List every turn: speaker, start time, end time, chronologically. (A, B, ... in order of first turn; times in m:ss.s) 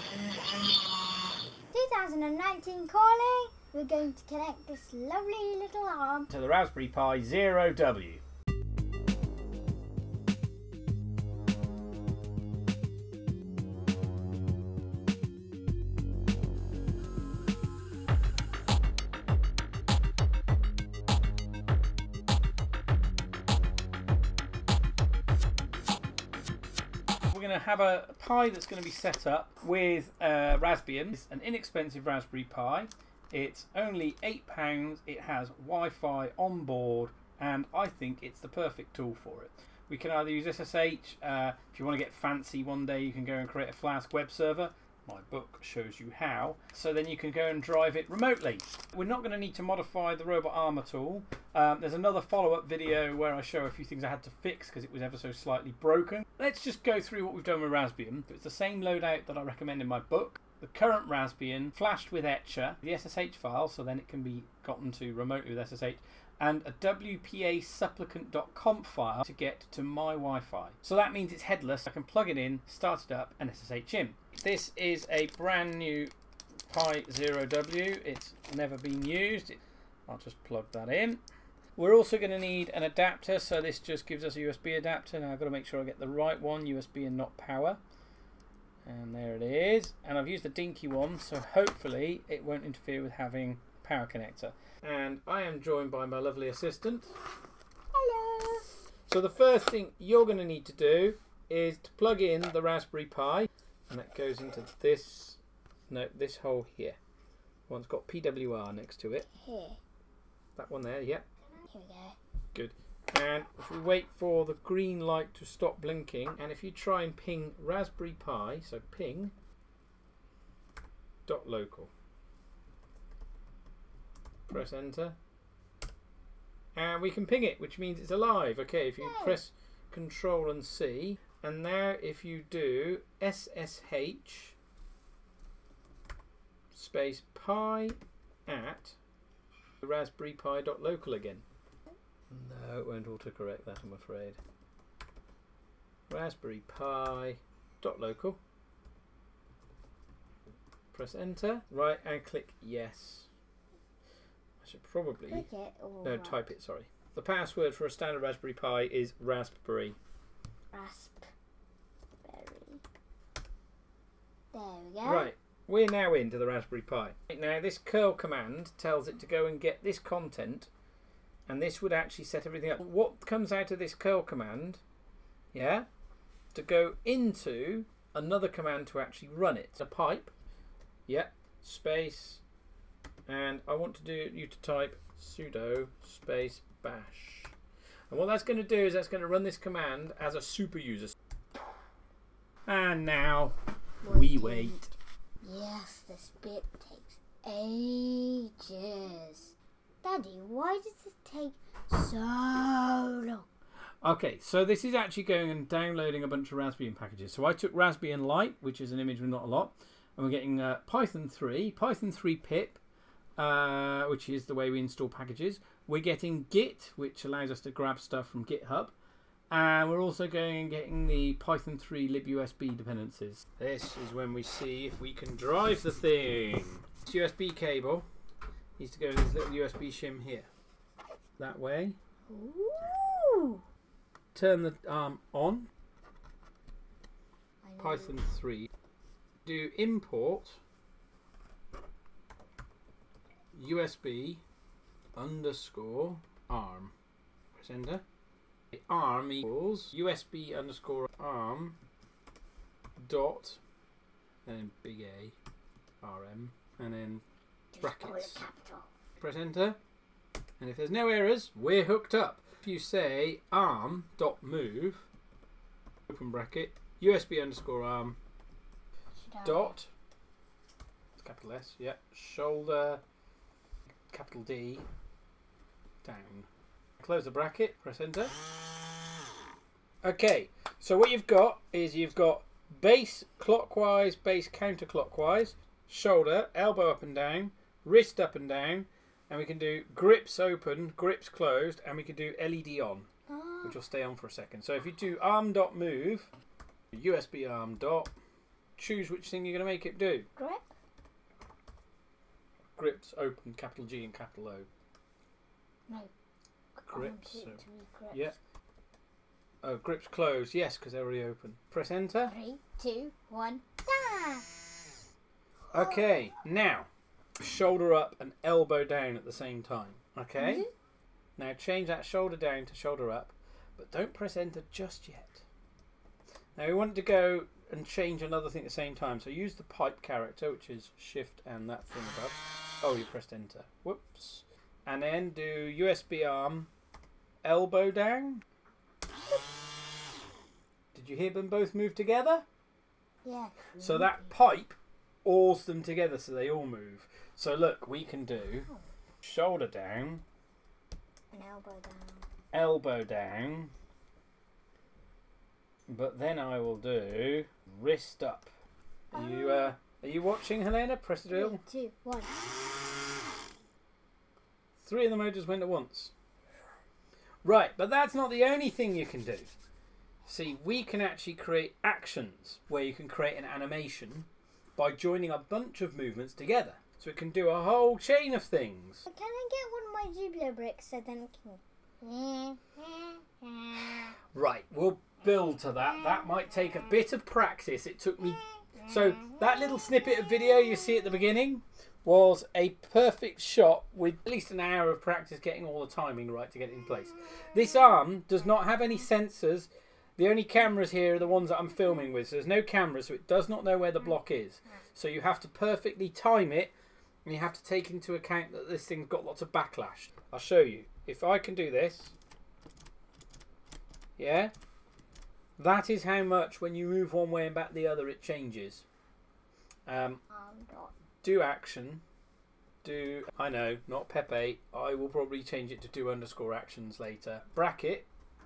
0:01.7-0:06.3 A
0:06.3-0:08.2 B
0:27.3-1:16.1 B
1:16.7-1:21.2 B
1:21.8-1:27.8 B
1:28.8-1:37.1 B
1:37.9-1:38.8 A
1:39.1-1:47.0 B
1:47.7-1:49.3 B
1:49.3-1:49.8 A
1:50.6-1:51.2 B
1:51.6-1:52.2 A
1:52.5-1:59.3 B
2:01.3-2:01.9 B
2:04.5-2:05.2 B
2:06.8-2:14.6 B
2:09.0-2:09.4 A
2:16.7-2:19.0 B
2:19.8-2:21.4 B
2:22.3-2:24.4 B
2:26.1-2:28.4 B
2:30.9-2:33.3 B
2:34.6-2:35.5 B
2:35.3-2:36.5 A
2:36.0-2:40.0 B
2:40.7-2:41.3 A
2:42.2-2:42.8 A
2:44.5-2:45.3 A
2:45.0-2:50.7 B
2:51.4-2:54.8 B
2:55.5-2:55.9 B
2:56.5-3:00.3 B
3:01.1-3:02.4 B
3:03.3-3:07.5 B
3:08.1-3:11.2 B
3:12.7-3:14.9 B
3:14.0-3:23.5 A
3:24.0-3:32.8 B
3:33.4-3:38.9 B
3:39.5-3:48.0 B
3:48.8-3:50.5 B
3:51.4-3:52.0 B
3:52.3-3:53.6 A
3:54.3-3:55.7 B
3:57.6-3:58.2 A
3:57.8-3:58.7 B
3:59.4-4:00.6 B
4:03.5-4:04.4 B
4:05.1-4:06.9 B
4:07.6-4:08.0 B
4:08.7-4:11.8 B
4:13.0-4:13.6 B
4:14.4-4:15.4 B
4:16.0-4:17.2 B
4:17.7-4:18.9 A
4:17.8-4:18.4 B
4:19.2-4:19.8 B
4:20.6-4:25.1 B
4:26.1-4:28.2 B
4:29.2-4:29.8 A
4:29.4-4:29.9 B
4:31.2-4:33.0 B
4:34.1-4:34.9 B
4:36.0-4:36.5 B
4:37.0-4:38.3 B
4:40.0-4:53.1 B
4:53.3-4:53.8 A
4:53.6-4:56.3 B
4:56.9-4:58.1 B
4:58.8-5:00.3 B
5:00.4-5:00.7 A
5:02.8-5:04.7 B
5:06.8-5:08.3 A
5:06.9-5:08.4 B
5:09.6-5:12.3 B
5:12.2-5:14.8 A
5:15.7-5:16.2 A
5:15.7-5:20.6 B
5:20.4-5:20.7 A
5:21.4-5:25.4 B
5:26.6-5:36.7 B
5:37.4-5:38.4 B
5:40.9-5:42.4 B
5:43.2-5:44.3 A
5:43.8-5:48.7 B
5:48.4-5:48.9 A
5:49.2-5:50.2 B
5:51.3-5:52.3 A
5:52.5-5:53.7 B
5:55.9-5:58.5 B
5:59.1-5:59.7 A
5:59.1-6:01.6 B
6:01.3-6:02.4 A
6:04.8-6:06.1 B
6:07.4-6:09.5 B
6:10.2-6:19.1 B
6:19.1-6:24.1 A
6:24.3-6:46.7 B
6:47.2-6:52.1 B
6:54.2-6:54.5 B
6:55.6-6:58.8 B
6:59.9-7:00.2 B
7:00.3-7:00.9 A
7:01.2-7:02.0 B
7:02.8-7:08.1 B